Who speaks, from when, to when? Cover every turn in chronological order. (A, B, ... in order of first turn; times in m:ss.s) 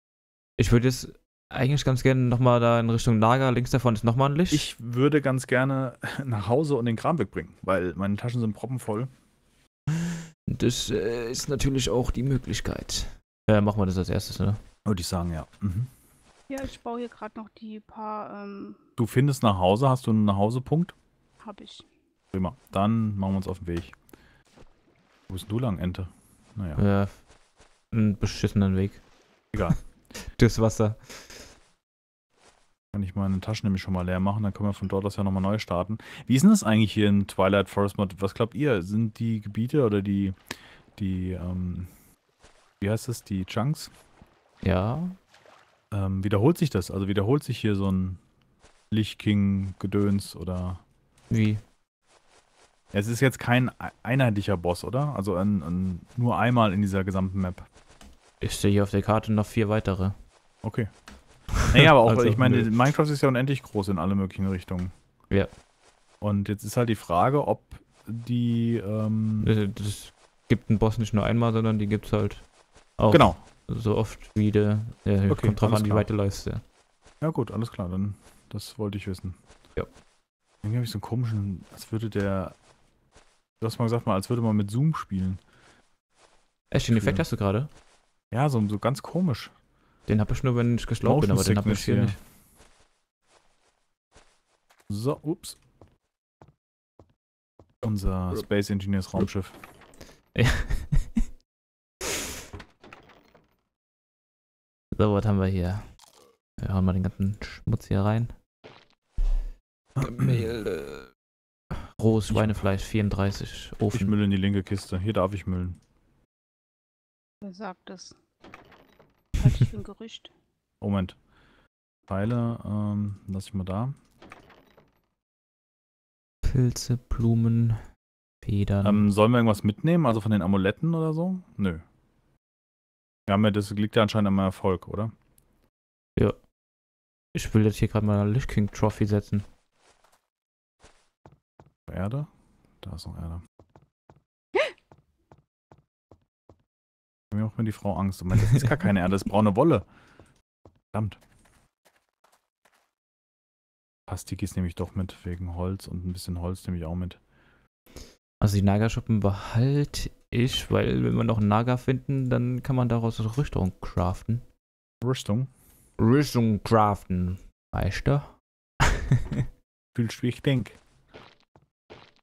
0:00.6-0:04.7 A
0:04.5-0:09.1 B
0:10.5-0:14.6 A
0:14.8-0:15.9 B
0:16.5-0:18.8 C
0:19.0-0:20.9 B
0:21.4-0:21.9 C
0:22.3-0:23.9 B
0:25.3-0:26.8 B
0:26.8-0:27.1 A
0:27.9-0:29.0 A
0:29.6-0:31.4 A
0:32.9-0:40.4 B
0:41.0-0:41.9 B
0:42.8-0:43.9 B
0:44.6-0:45.2 A
0:45.9-0:48.2 B
0:48.9-0:50.8 B
0:51.3-0:51.6 A
0:52.9-0:57.6 B
0:58.4-1:00.1 A
1:00.6-1:00.9 B
1:01.5-1:04.9 B
1:01.7-1:02.8 A
1:06.2-1:09.5 B
1:09.4-1:12.4 A
1:13.0-1:16.6 A
1:13.1-1:13.4 B
1:15.3-1:16.1 B
1:17.2-1:19.4 B
1:20.6-1:22.5 B
1:23.6-1:25.4 B
1:26.7-1:27.7 A
1:26.9-1:27.2 B
1:28.3-1:29.5 B
1:30.1-1:32.2 A
1:31.0-1:32.2 B
1:34.9-1:35.6 B
1:37.8-1:39.5 B
1:40.3-1:41.2 A
1:44.9-1:45.8 A
1:46.6-1:48.3 A
1:50.0-1:50.5 B
1:50.0-1:51.1 A
1:51.7-1:54.1 A
1:52.3-1:52.7 B
1:53.9-1:55.8 B
1:57.4-1:58.2 C
1:59.4-2:00.3 C
2:00.8-2:01.2 B
2:02.1-2:03.9 B
2:06.4-2:07.8 A
2:08.4-2:09.0 A
2:08.8-2:11.8 B
2:13.3-2:15.1 B
2:17.3-2:19.4 A
2:21.9-2:22.3 B
2:22.8-2:23.4 B
2:27.3-2:29.8 B
2:30.9-2:31.2 B
2:34.1-2:37.2 B
2:38.4-2:44.4 A
2:45.0-2:45.5 B
2:46.0-2:48.3 A
2:49.9-2:50.8 B